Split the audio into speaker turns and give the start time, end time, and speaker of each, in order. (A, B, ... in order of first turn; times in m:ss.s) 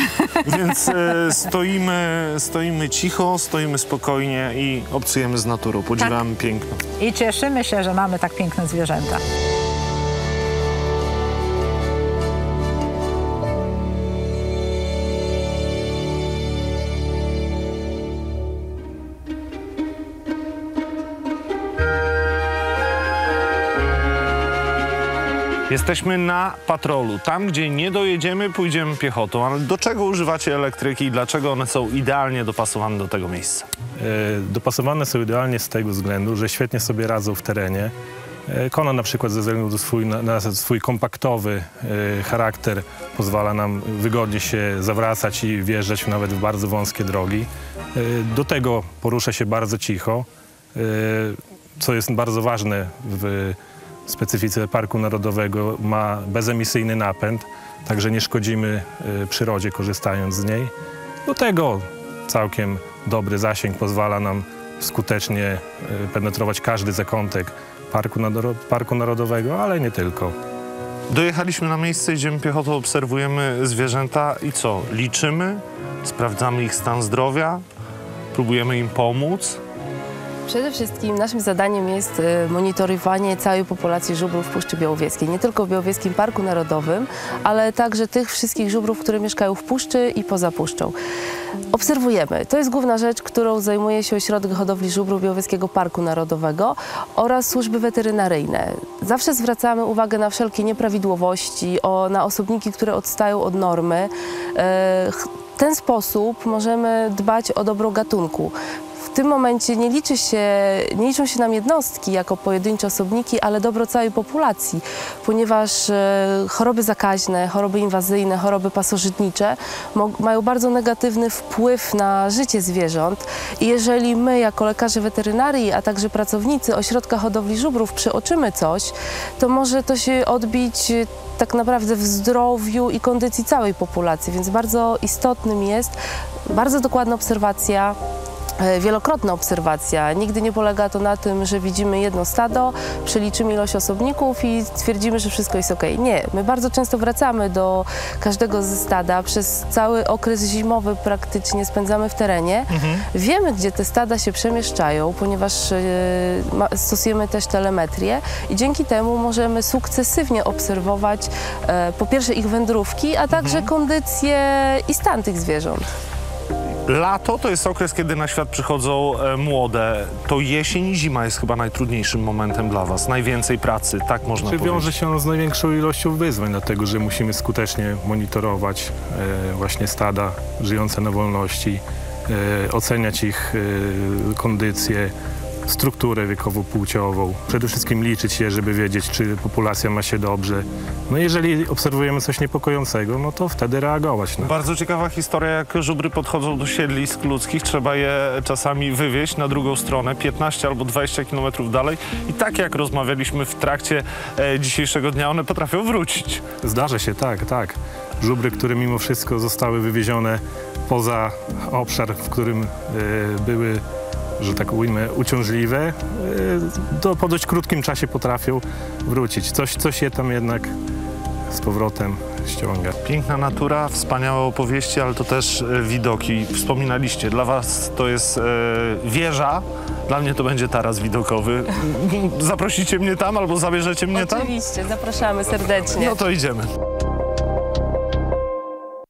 0:00.4-0:06.8 A
0:07.0-0:09.2 B
0:25.7-0:33.7 A
0:34.0-0:37.9 C
0:38.5-1:00.7 C
1:01.2-1:10.4 C
1:11.1-1:17.6 A
1:18.3-1:19.6 A
1:20.5-1:31.0 D
1:31.7-1:48.5 D
1:49.1-2:16.0 D
2:16.5-2:18.0 D
2:18.6-2:45.8 D
2:32.7-2:33.0 A
2:43.3-2:43.7 A
2:46.9-2:54.9 A
2:54.4-3:05.1 C
3:05.7-3:14.5 C
3:14.4-3:26.5 A
3:26.6-3:33.8 C
3:34.4-3:40.7 C
3:41.5-3:42.9 C
3:43.0-3:54.6 A
3:54.1-3:56.2 D
3:55.9-3:56.7 A